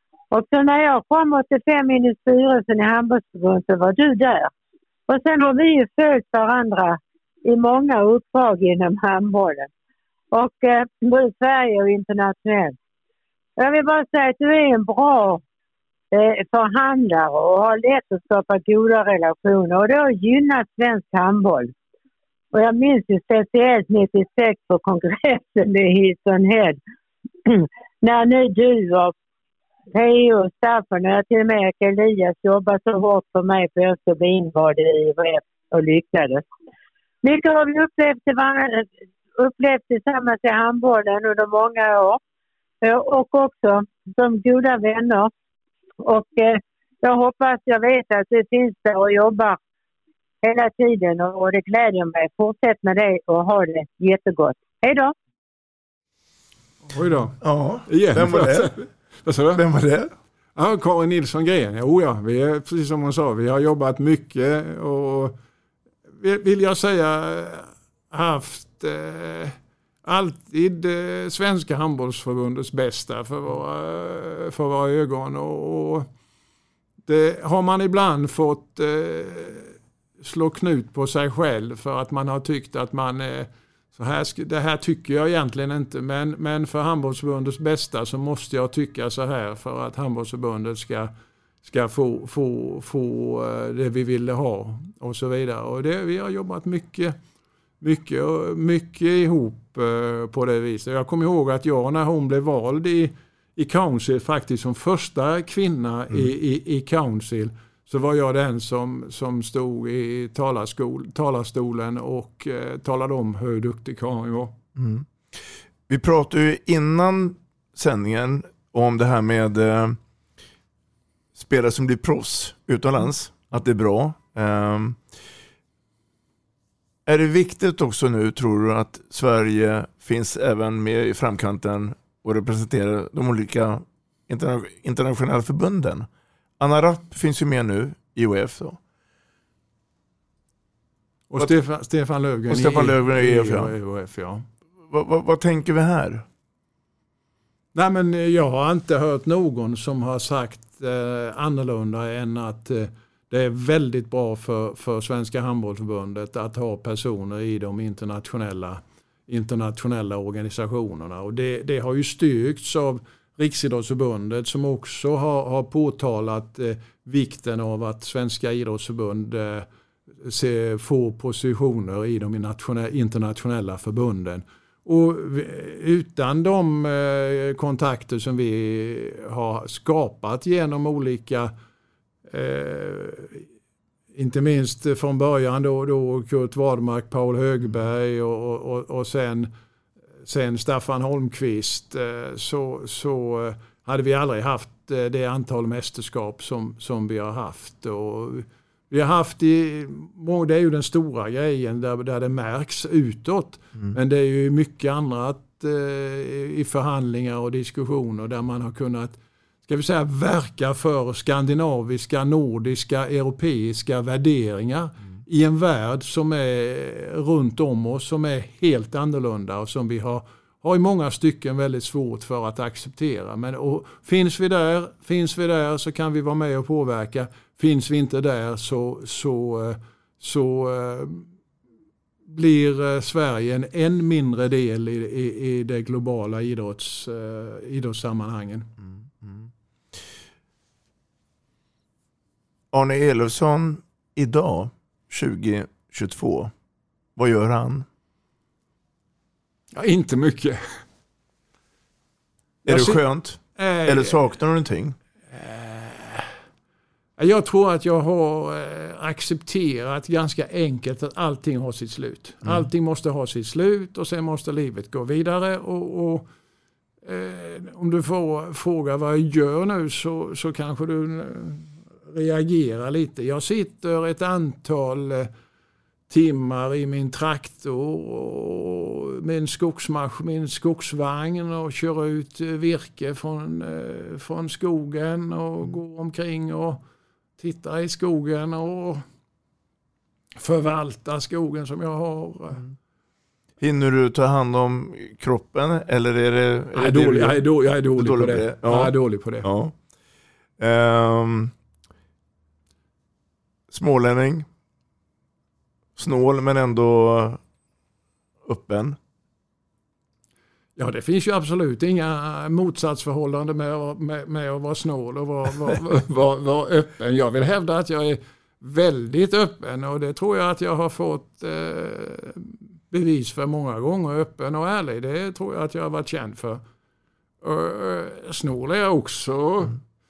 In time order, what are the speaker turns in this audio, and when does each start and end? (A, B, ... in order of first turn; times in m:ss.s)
0:00.3-0:04.5 A
0:05.1-0:09.7 A
0:10.3-0:12.8 A
0:13.6-0:15.4 A
0:16.1-0:21.7 A
0:22.5-0:26.8 A
0:27.4-0:29.1 A
0:29.9-0:36.4 A
0:37.2-0:42.2 A
0:42.8-0:45.3 A
0:46.0-0:49.6 A
0:50.4-0:55.1 A
0:56.9-0:59.6 B
0:57.4-0:58.7 C
0:59.5-1:00.1 C
1:00.6-1:05.4 B
1:06.2-1:16.1 B
1:17.1-1:31.1 B
1:31.6-1:37.2 B
1:37.8-1:54.6 B
1:54.8-2:00.0 C
2:01.4-2:05.0 C
2:07.1-2:16.1 C
2:16.6-2:18.8 C
2:21.3-2:24.4 B
2:22.5-2:23.7 C
2:24.9-2:26.2 C
2:27.7-2:49.7 B
2:50.2-3:01.5 B
3:02.3-3:03.4 B
3:04.2-3:09.5 B
3:10.3-3:51.3 B
3:52.3-3:58.7 B
3:59.2-3:59.5 C
4:02.7-4:06.5 C
4:07.2-4:07.9 C
4:09.7-4:10.6 B
4:12.6-4:13.0 B
4:12.6-4:15.0 C
4:13.6-4:14.2 B
4:15.3-4:16.3 B
4:17.2-4:26.3 B
4:27.0-4:35.3 B
4:36.1-4:46.8 B
4:47.4-4:49.0 B
4:50.4-4:52.6 B
4:53.6-4:59.8 C
4:56.7-4:59.5 B
5:00.6-5:01.5 C
5:03.7-5:04.5 C
5:06.0-5:07.4 C
5:08.4-5:09.0 C
5:10.8-5:26.6 B
5:27.4-5:29.8 B